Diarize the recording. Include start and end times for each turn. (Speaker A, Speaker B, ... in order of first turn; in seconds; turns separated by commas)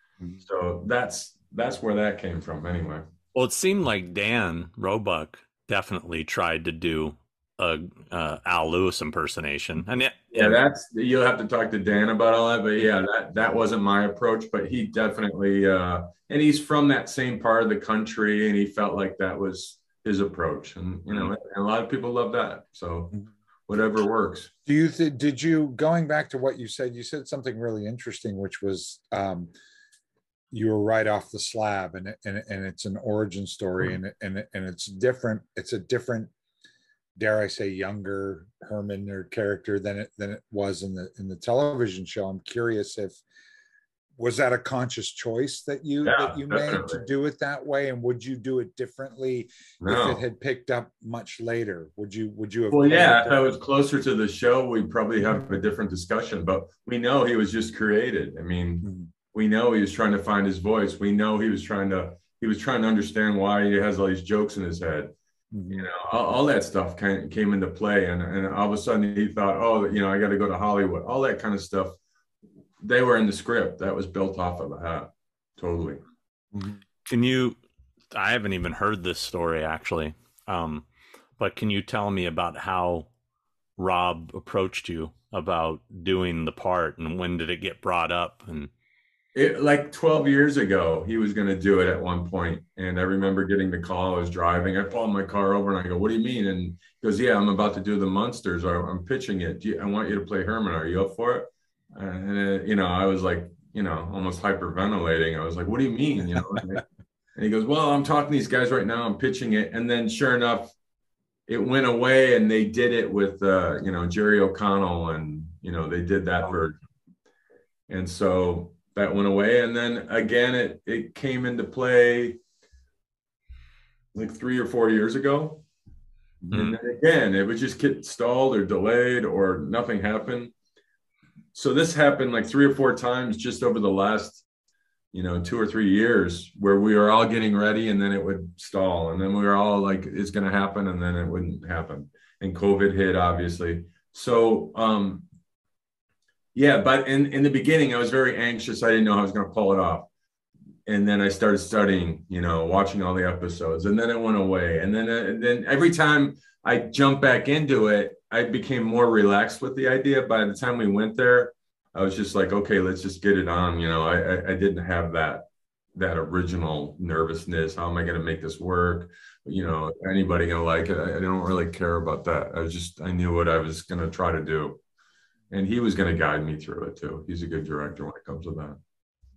Speaker A: 0.4-3.0, Speaker B: 3.3-10.6, Speaker A: 10.3-24.5, Speaker C: 24.6-29.5, Speaker C: 30.5-36.3, Speaker C: 37.2-43.2, Speaker C: 44.2-53.5, Speaker A: 46.0-47.1, Speaker A: 49.8-50.2, Speaker A: 52.7-65.1, Speaker C: 58.8-59.1, Speaker C: 65.5-65.9, Speaker A: 65.7-72.0, Speaker A: 72.8-76.0, Speaker C: 76.5-76.8, Speaker B: 77.1-77.6, Speaker B: 78.1-80.8, Speaker B: 81.4-83.1, Speaker B: 83.8-88.7, Speaker A: 89.3-106.8, Speaker A: 107.3-110.7, Speaker A: 111.5-116.8, Speaker A: 117.9-122.4, Speaker A: 124.1-125.6, Speaker A: 126.5-130.5, Speaker A: 131.5-134.4, Speaker A: 135.1-145.3, Speaker A: 146.5-150.1, Speaker A: 150.9-174.8, Speaker A: 175.5-178.8